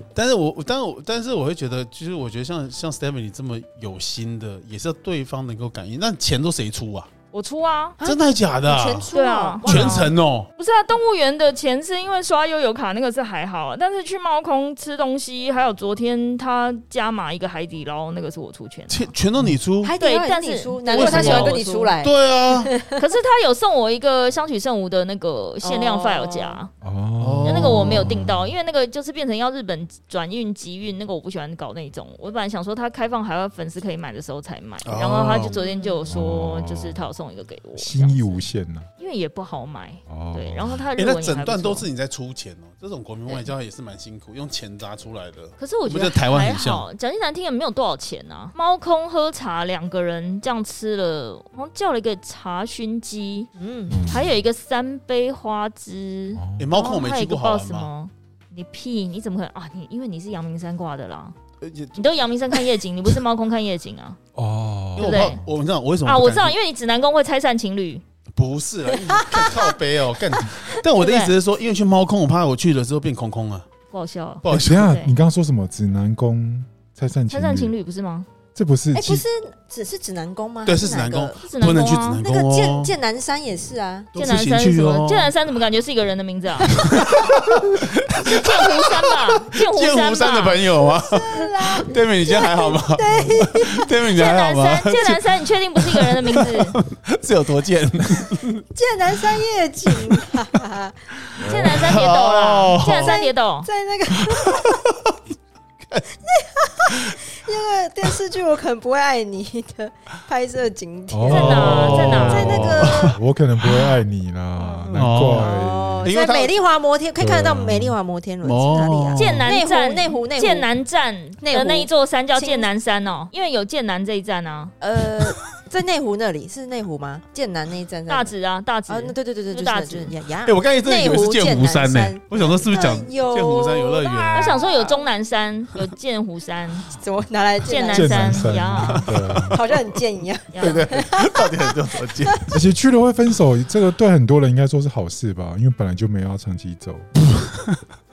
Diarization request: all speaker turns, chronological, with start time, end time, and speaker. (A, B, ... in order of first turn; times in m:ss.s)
0:00.2-0:07.1 A
0:07.3-0:08.0 B
0:08.0-0:10.1 C
0:08.0-0:09.1 A
0:09.1-0:19.1 B
0:09.6-0:10.5 A
0:18.9-0:19.9 A
0:19.8-0:23.0 C
0:20.0-0:21.9 B
0:20.9-0:22.7 A
0:23.0-0:26.7 B
0:25.6-0:26.6 C
0:26.8-0:28.5 D
0:27.2-0:28.1 A
0:27.4-0:38.4 B
0:34.8-0:35.6 A
0:35.5-0:36.0 C
0:36.1-0:37.1 D
0:37.8-0:38.9 D
0:39.0-0:41.9 B
0:40.1-0:40.8 D
0:41.0-0:46.8 A
0:45.6-0:53.5 B
0:53.6-0:54.0 C
0:53.9-0:54.3 D
0:54.0-1:01.4 B
0:56.4-0:56.8 D
0:56.6-0:57.9 A
1:01.6-1:02.0 A
1:02.0-1:04.2 B
1:04.4-1:05.4 D
1:05.0-1:06.6 A
1:05.0-1:05.4 B
1:06.0-1:08.0 B
1:08.4-1:13.7 A
1:09.1-1:09.7 C
1:10.4-1:10.7 C
1:11.0-1:11.3 B
1:13.9-1:15.1 B
1:14.4-1:14.9 A
1:14.5-1:17.7 D
1:17.3-1:18.3 B
1:18.6-1:19.2 D
1:18.9-1:21.4 C
1:20.6-1:22.9 A
1:21.4-1:22.2 B
1:22.2-1:24.1 C
1:24.1-1:25.3 A
1:24.2-1:26.9 B
1:26.7-1:38.6 A
1:28.2-1:30.6 B
1:30.9-1:33.9 C
1:34.1-1:36.8 B
1:38.7-1:41.0 C
1:39.2-1:40.4 A
1:41.3-1:43.2 A
1:41.4-1:43.7 B
1:41.5-1:41.9 D
1:42.8-1:44.8 C
1:44.3-1:45.2 A
1:46.2-1:53.2 C
1:46.9-1:47.2 A
1:51.1-1:56.1 D
1:51.3-1:52.6 B
1:51.3-1:54.0 A
1:54.6-2:00.7 C
1:54.9-1:56.6 A
1:57.2-1:58.0 D
1:58.4-1:59.5 A
1:59.2-2:04.7 B
2:01.4-2:02.7 C
2:04.8-2:08.3 C
2:08.1-2:10.1 B
2:08.9-2:15.0 C
2:10.4-2:14.6 A
2:14.1-2:16.9 B
2:16.9-2:18.6 C
2:17.7-2:19.1 B
2:17.9-2:19.6 D
2:18.7-2:19.8 A
2:19.5-2:22.5 C
2:20.5-2:20.9 B
2:20.6-2:22.6 A
2:22.5-2:27.1 D